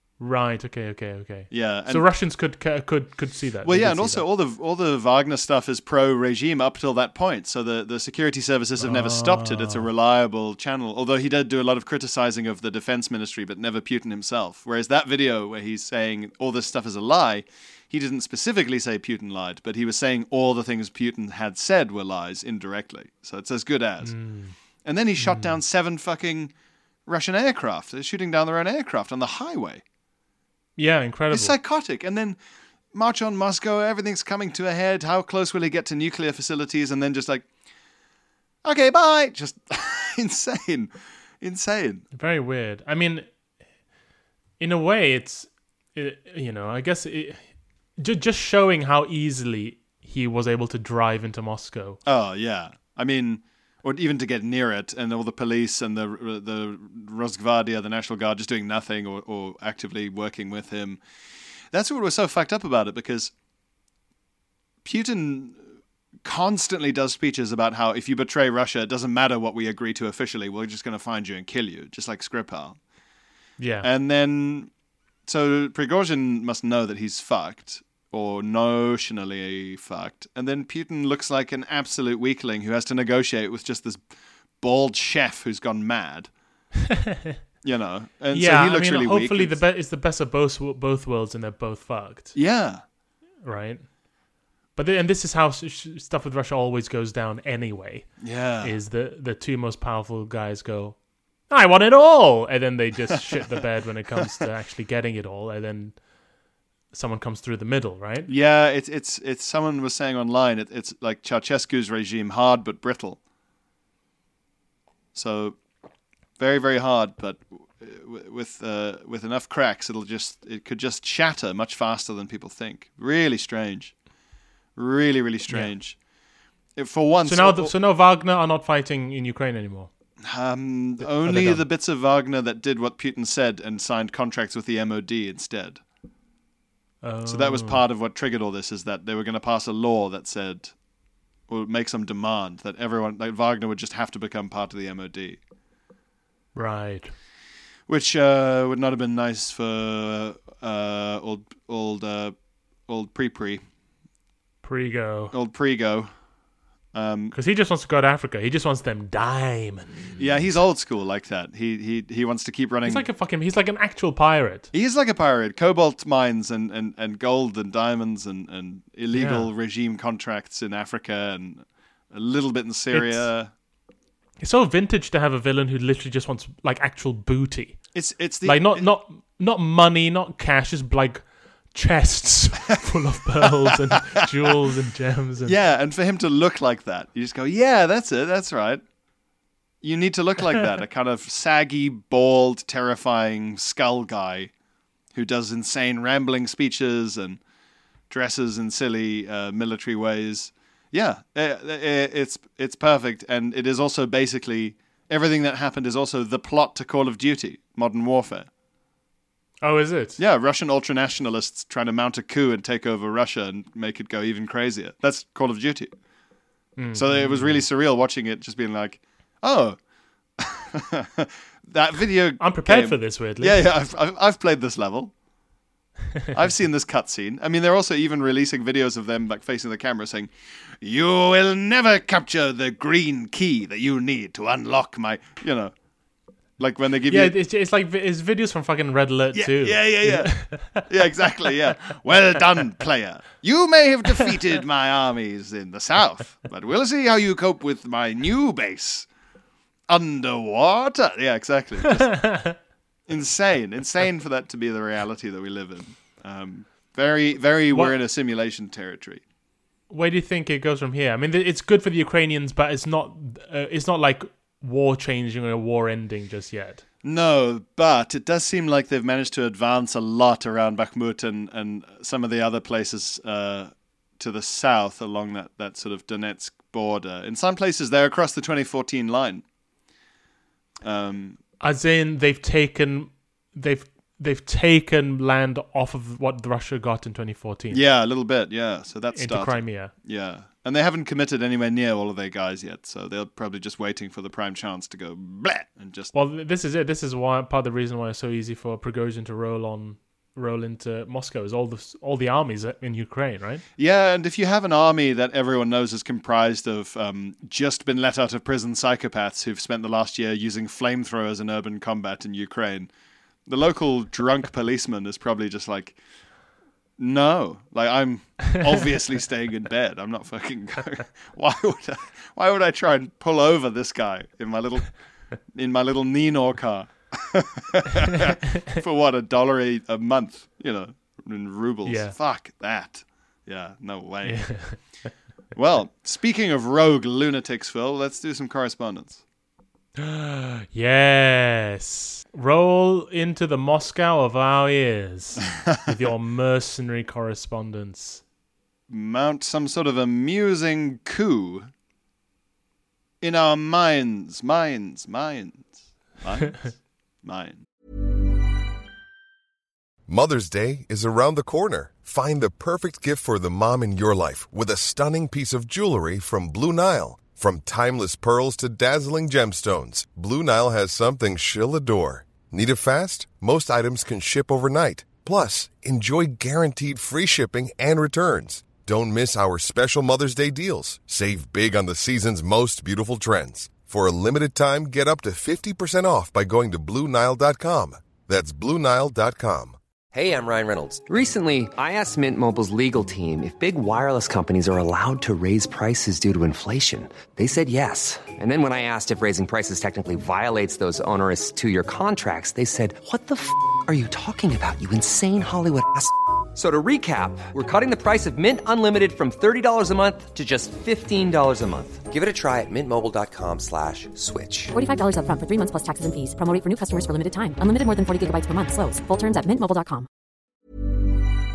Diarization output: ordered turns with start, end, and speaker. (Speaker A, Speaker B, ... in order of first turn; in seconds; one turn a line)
Speaker A: 0.2-4.2
Speaker B: 1.5-2.0
Speaker B: 3.6-24.1
Speaker A: 8.8-9.9
Speaker A: 24.0-24.6
Speaker B: 24.8-26.5
Speaker A: 25.2-25.5
Speaker B: 27.1-29.8
Speaker A: 30.8-31.6
Speaker B: 31.3-32.4
Speaker B: 32.9-37.5
Speaker B: 38.6-42.0
Speaker A: 42.1-43.3
Speaker A: 44.6-47.4
Speaker A: 48.0-52.0
Speaker B: 52.1-61.0
Speaker B: 61.7-63.3
Speaker B: 64.8-65.7
Speaker B: 66.2-72.8
Speaker A: 73.6-73.9
Speaker B: 73.8-74.7
Speaker B: 75.3-84.0
Speaker B: 84.6-86.3
Speaker A: 86.9-87.4
Speaker B: 87.6-89.6
Speaker A: 88.3-92.3
Speaker B: 92.3-92.8
Speaker A: 93.4-93.8
Speaker A: 94.8-101.0
Speaker B: 98.2-98.7
Speaker A: 101.5-105.9
Speaker B: 103.1-103.4
Speaker B: 104.1-104.4
Speaker A: 106.9-108.3
Speaker B: 108.3-113.2
Speaker B: 115.1-115.6
Speaker B: 116.4-123.9
Speaker B: 124.8-126.0
Speaker B: 126.8-127.7
Speaker A: 127.3-129.9
Speaker B: 130.2-135.8
Speaker A: 131.1-131.6
Speaker A: 137.0-137.8
Speaker B: 137.3-140.7
Speaker B: 141.5-145.4
Speaker A: 146.6-147.1
Speaker B: 147.9-152.3
Speaker B: 152.9-153.6
Speaker A: 154.6-155.3
Speaker B: 155.3-156.1
Speaker B: 156.9-157.3
Speaker A: 157.3-160.2
Speaker B: 160.2-163.1
Speaker A: 162.9-164.7
Speaker B: 164.7-173.5
Speaker A: 169.1-169.5
Speaker A: 172.9-173.3
Speaker A: 174.4-177.8
Speaker B: 177.9-178.9
Speaker A: 178.4-181.2
Speaker A: 181.7-185.6
Speaker B: 183.9-184.5
Speaker B: 185.4-188.8
Speaker B: 189.8-194.5
Speaker B: 195.1-197.4
Speaker B: 198.1-208.5
Speaker A: 209.6-210.2
Speaker B: 210.2-215.9
Speaker A: 216.8-217.6
Speaker B: 216.9-219.8
Speaker B: 220.4-225.1
Speaker A: 222.4-223.7
Speaker B: 226.3-235.7
Speaker B: 236.6-237.3
Speaker A: 237.1-240.9
Speaker B: 239.3-249.1
Speaker B: 249.9-252.2
Speaker A: 251.9-252.6
Speaker B: 253.1-259.2
Speaker A: 259.9-266.8
Speaker B: 267.0-279.4
Speaker B: 280.8-281.4
Speaker A: 281.6-287.8
Speaker B: 287.7-296.1
Speaker A: 289.1-289.9
Speaker A: 296.1-303.6
Speaker B: 303.8-312.9
Speaker B: 313.5-316.0
Speaker B: 317.0-324.9
Speaker B: 325.5-334.6
Speaker A: 331.9-332.1
Speaker A: 334.2-334.8
Speaker B: 335.6-339.2
Speaker A: 340.0-348.2
Speaker B: 348.9-351.7
Speaker B: 353.2-357.6
Speaker C: 360.1-389.8
Speaker D: 390.1-414.7
Speaker E: 414.7-420.1